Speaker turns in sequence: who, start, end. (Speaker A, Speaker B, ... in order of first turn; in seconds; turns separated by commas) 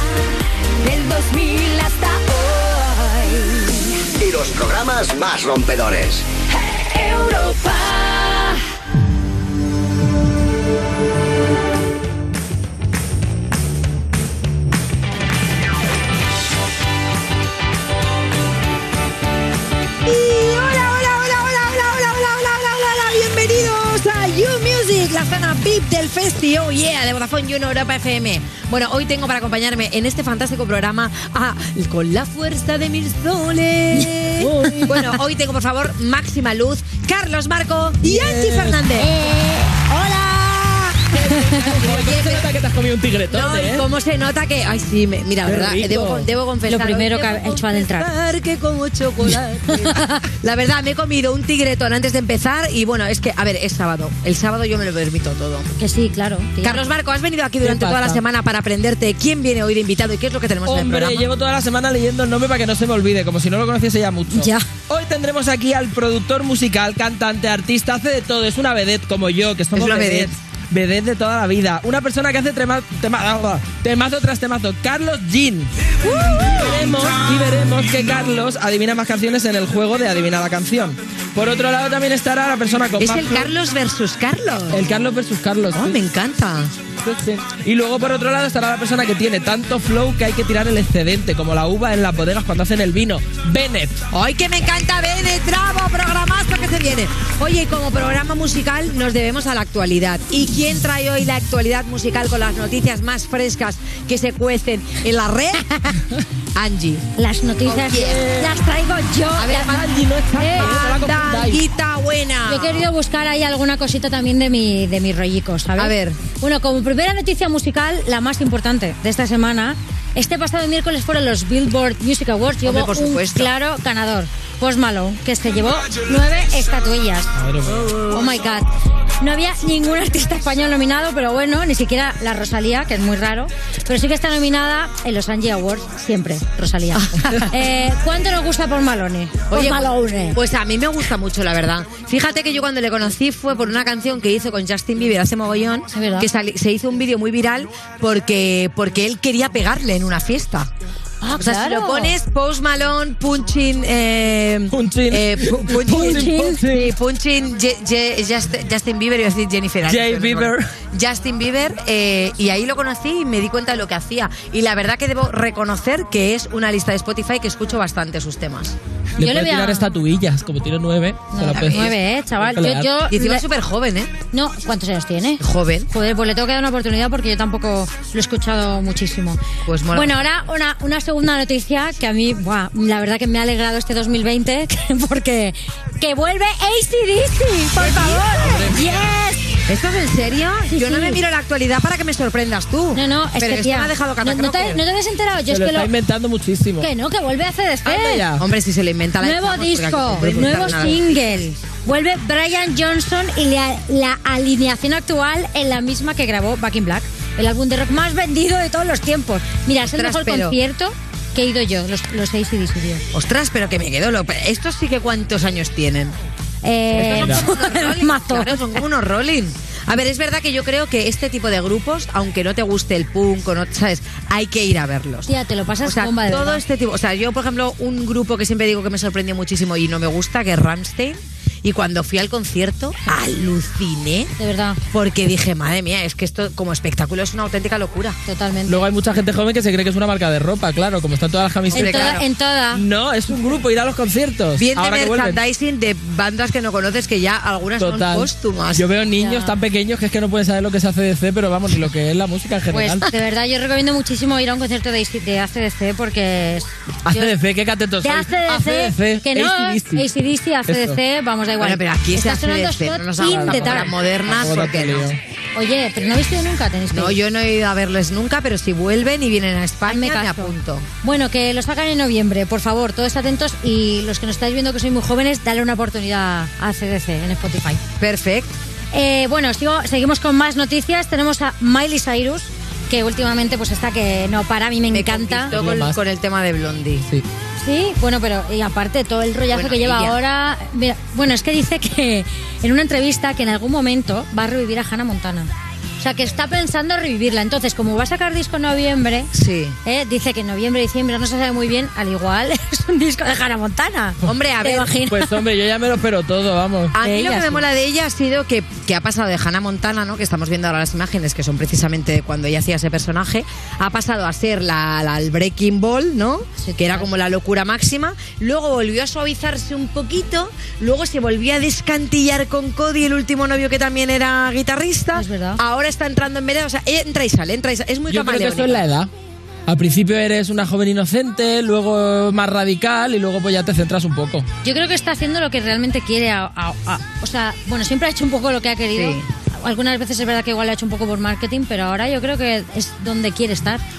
Speaker A: 0.8-3.7, Speaker B: 4.2-6.3, Speaker A: 7.0-8.4, Speaker C: 20.1-39.1, Speaker D: 34.4-35.0, Speaker E: 34.6-34.9, Speaker D: 38.0-38.8, Speaker E: 39.0-39.9, Speaker C: 39.9-42.5, Speaker D: 41.1-43.8, Speaker C: 43.3-55.7, Speaker D: 45.5-46.3, Speaker E: 46.7-48.1, Speaker E: 49.7-50.2, Speaker E: 55.8-56.8, Speaker C: 56.6-61.2, Speaker D: 57.6-58.2, Speaker D: 60.6-75.7, Speaker E: 64.3-64.6, Speaker C: 69.7-70.3, Speaker C: 76.0-76.7, Speaker D: 76.4-83.5, Speaker C: 83.0-84.9, Speaker D: 84.7-86.0, Speaker C: 85.7-86.7, Speaker D: 87.0-94.0, Speaker C: 94.1-106.0, Speaker C: 106.6-107.1, Speaker E: 107.2-109.8, Speaker C: 107.7-108.3, Speaker D: 108.1-108.5, Speaker C: 109.4-112.9, Speaker D: 109.6-111.6, Speaker E: 110.4-110.7, Speaker E: 112.5-127.3, Speaker C: 115.8-116.2, Speaker C: 122.6-123.5, Speaker D: 127.4-128.0, Speaker E: 128.1-128.7, Speaker E: 129.2-140.4, Speaker C: 136.9-137.5, Speaker C: 139.5-150.7, Speaker E: 145.9-146.3, Speaker E: 151.2-152.2, Speaker C: 151.4-168.7, Speaker D: 154.7-156.9, Speaker E: 155.9-156.6, Speaker D: 159.9-160.7, Speaker D: 169.2-172.9, Speaker E: 169.2-169.9, Speaker E: 171.3-173.4, Speaker C: 171.5-171.9, Speaker C: 173.1-174.1, Speaker E: 174.3-179.4, Speaker C: 175.4-175.9, Speaker C: 179.7-180.2, Speaker E: 179.9-189.6, Speaker C: 187.8-188.6, Speaker D: 188.4-189.1, Speaker C: 189.7-194.8, Speaker E: 190.7-191.2, Speaker E: 192.9-195.9, Speaker D: 195.5-196.9, Speaker E: 196.8-198.3, Speaker C: 197.9-201.4, Speaker E: 199.2-213.0, Speaker C: 209.9-210.6, Speaker C: 213.1-216.1, Speaker E: 216.6-218.6, Speaker C: 216.9-225.3, Speaker D: 217.2-217.4, Speaker E: 225.2-226.6, Speaker C: 225.8-234.3, Speaker E: 234.4-234.8, Speaker C: 234.9-238.2, Speaker E: 238.2-238.8, Speaker D: 238.7-242.2, Speaker C: 241.7-242.2, Speaker E: 241.7-242.8, Speaker D: 242.7-245.4, Speaker C: 244.6-248.8, Speaker D: 247.8-253.0, Speaker E: 249.2-249.5, Speaker E: 252.7-257.3, Speaker D: 257.1-260.1, Speaker E: 258.0-263.9, Speaker D: 260.7-261.0, Speaker C: 261.6-265.1, Speaker D: 263.2-265.2, Speaker E: 265.6-267.2, Speaker C: 266.9-270.9, Speaker E: 269.9-277.8, Speaker C: 278.0-278.5, Speaker E: 278.9-285.5, Speaker C: 284.9-287.1, Speaker D: 285.5-286.0, Speaker E: 287.6-295.5, Speaker C: 289.5-290.2, Speaker E: 296.0-299.3, Speaker C: 299.3-299.8, Speaker E: 299.9-305.3, Speaker C: 304.2-304.9, Speaker D: 305.1-306.9, Speaker C: 306.9-328.9, Speaker E: 307.0-307.6, Speaker E: 316.6-317.1, Speaker E: 325.1-325.6, Speaker D: 328.1-329.1, Speaker D: 329.7-334.5, Speaker E: 334.6-343.8, Speaker C: 338.9-339.2